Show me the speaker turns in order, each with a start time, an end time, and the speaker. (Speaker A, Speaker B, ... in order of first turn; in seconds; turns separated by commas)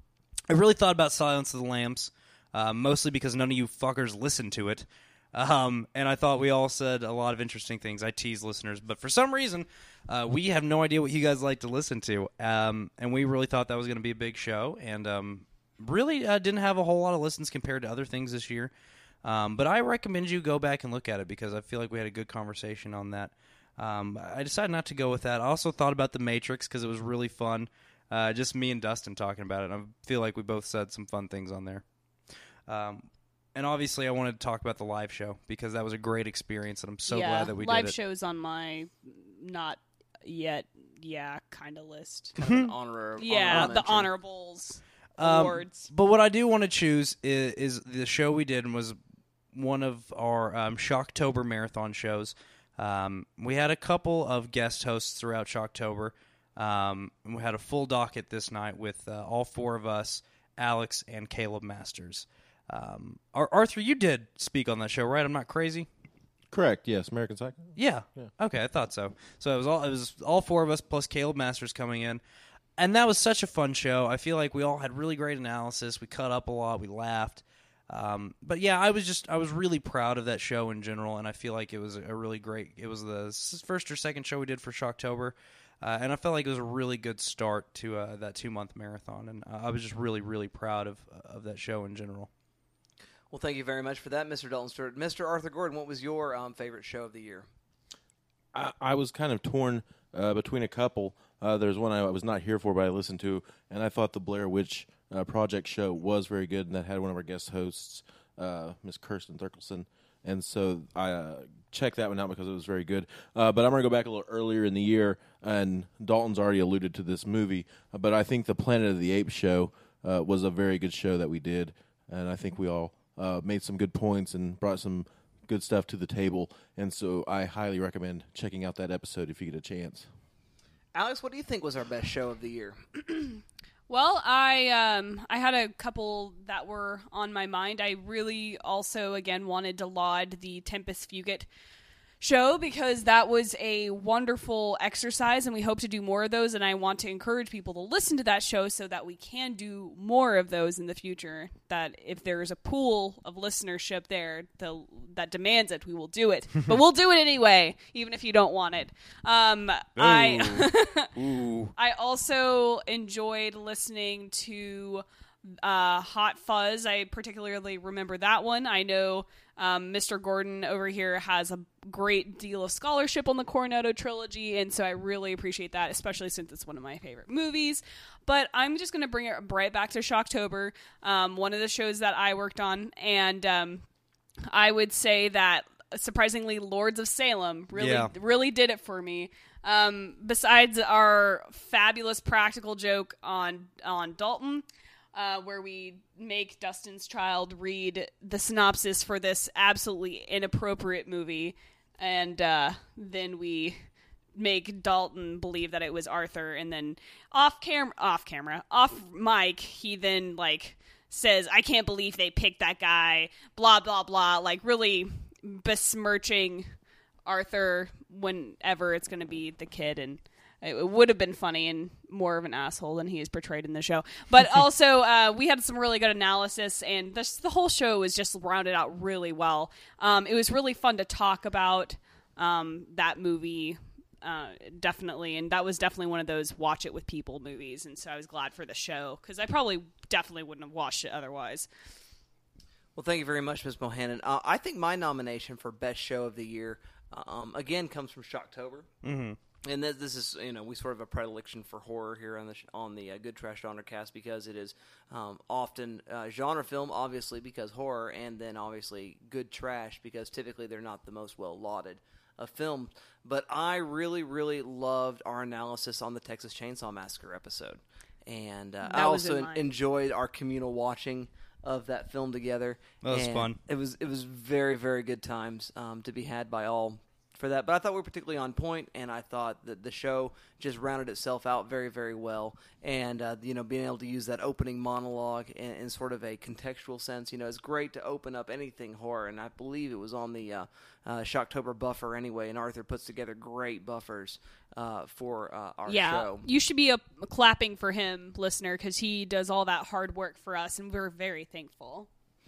Speaker A: 0.5-18.7, Speaker A: 19.2-31.8, Speaker A: 32.7-38.0, Speaker B: 37.1-42.3, Speaker C: 42.4-44.1, Speaker A: 42.4-42.7, Speaker B: 43.2-45.9, Speaker A: 45.2-49.0, Speaker A: 49.5-65.9, Speaker D: 66.5-68.3, Speaker A: 67.8-72.2, Speaker A: 72.8-92.3, Speaker C: 93.3-97.5, Speaker D: 98.5-130.1, Speaker C: 130.9-132.8, Speaker B: 133.9-141.5, Speaker B: 142.2-161.1, Speaker D: 160.0-160.5, Speaker D: 161.2-161.7, Speaker B: 161.8-183.8, Speaker B: 184.5-203.8, Speaker A: 187.7-188.1, Speaker B: 204.3-216.7, Speaker B: 217.2-241.7, Speaker C: 242.9-248.9, Speaker A: 249.0-249.4, Speaker C: 249.6-296.5, Speaker B: 268.8-269.7, Speaker A: 273.0-273.6, Speaker B: 295.9-302.1